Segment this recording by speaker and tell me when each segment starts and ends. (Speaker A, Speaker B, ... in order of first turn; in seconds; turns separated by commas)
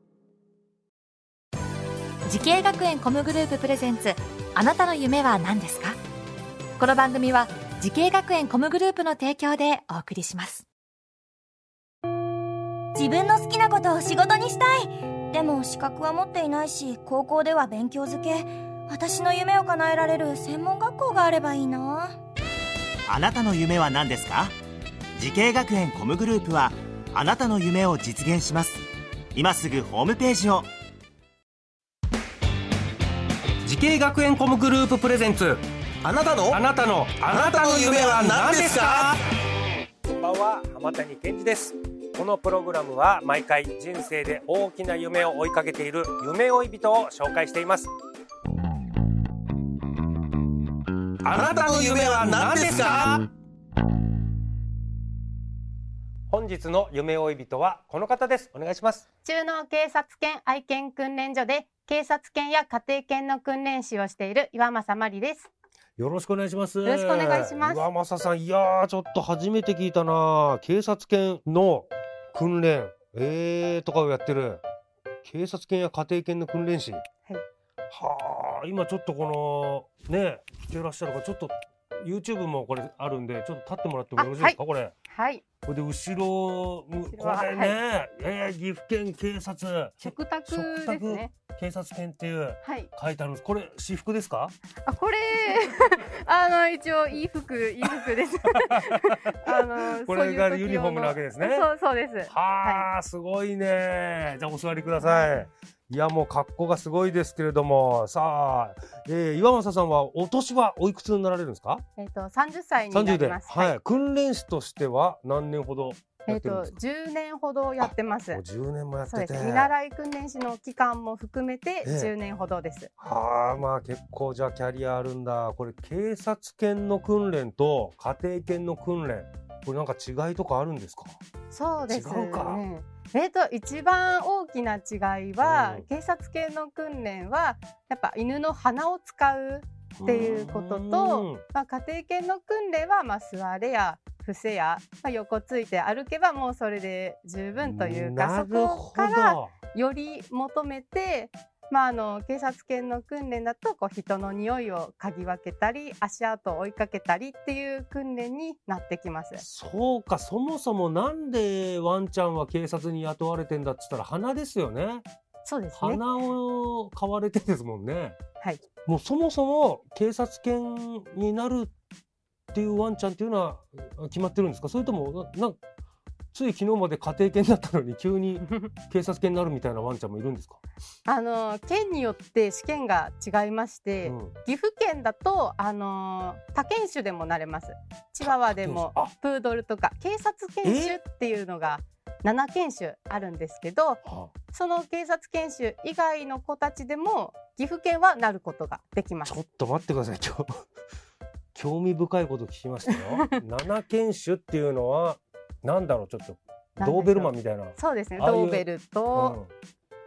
Speaker A: 2.3-6.0, Speaker A: 6.8-10.7, Speaker B: 12.9-22.2, Speaker C: 23.1-24.6, Speaker C: 25.2-30.7, Speaker D: 33.6-39.1, Speaker E: 37.4-39.1, Speaker D: 40.0-47.9, Speaker E: 51.3-53.2, Speaker D: 51.6-53.1, Speaker D: 56.3-59.0, Speaker F: 59.2-65.5, Speaker D: 66.0-74.6, Speaker F: 66.8-67.9, Speaker D: 75.2-77.0, Speaker D: 77.9-84.9, Speaker F: 84.2-85.4, Speaker D: 85.7-94.5, Speaker F: 87.1-87.8, Speaker F: 90.0-91.3, Speaker F: 92.6-92.9, Speaker F: 94.8-102.9, Speaker D: 98.0-101.7, Speaker D: 102.3-111.8, Speaker F: 105.0-105.5, Speaker F: 112.0-113.8, Speaker D: 112.9-116.8, Speaker F: 116.3-118.4, Speaker D: 117.8-119.7, Speaker F: 119.1-122.9, Speaker D: 121.8-122.1, Speaker D: 123.0-131.1, Speaker F: 131.5-159.4, Speaker D: 131.9-132.6, Speaker D: 135.4-135.9, Speaker D: 140.0-141.4, Speaker D: 147.6-149.5, Speaker D: 159.4-165.1, Speaker F: 165.4-166.0, Speaker D: 165.8-168.2, Speaker D: 168.8-171.7, Speaker D: 172.5-175.6, Speaker D: 176.3-180.6, Speaker F: 181.1-199.4, Speaker D: 184.0-184.4, Speaker D: 188.2-189.1, Speaker D: 190.6-191.0, Speaker D: 194.1-194.3, Speaker D: 199.2-200.5, Speaker D: 201.6-209.5, Speaker F: 202.9-203.4, Speaker F: 206.8-209.4